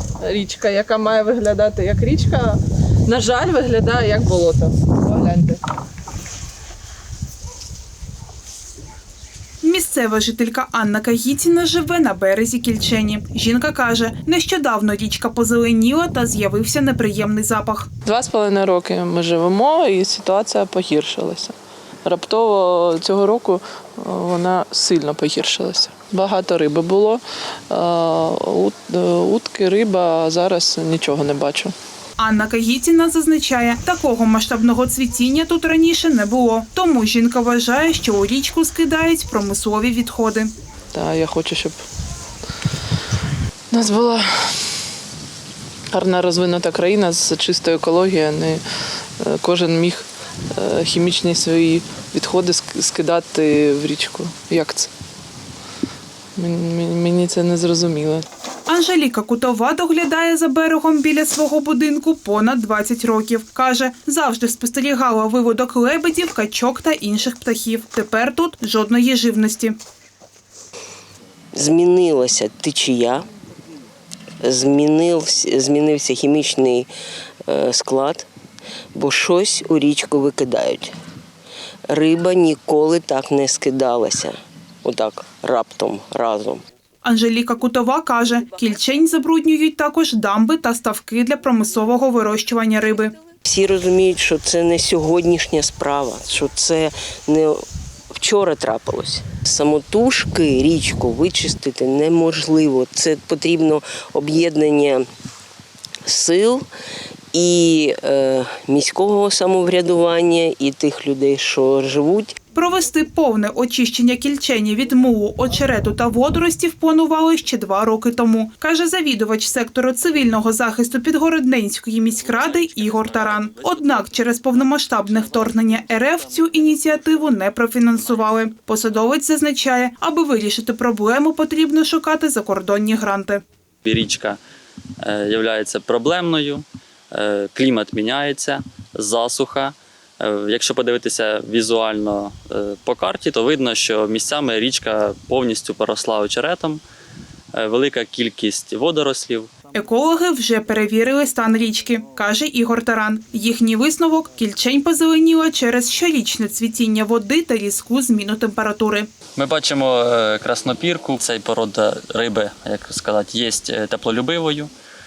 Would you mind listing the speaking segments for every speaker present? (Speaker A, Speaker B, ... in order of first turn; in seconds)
Speaker A: 0.2-5.6, 18.1-31.7, 40.9-41.8, 43.7-44.7, 45.9-48.6, 49.2-54.9, 56.4-58.3
Speaker B: 9.6-17.9, 32.2-40.5, 58.7-69.8, 87.0-93.2, 112.5-133.4, 149.7-159.1
Speaker C: 71.5-73.2, 74.4-76.9, 77.5-78.3, 78.9-81.0, 81.9-86.6, 93.4-105.1, 106.0-106.7, 107.3-112.4
Speaker D: 133.8-134.4, 135.0-146.8, 147.5-149.5, 159.3-164.7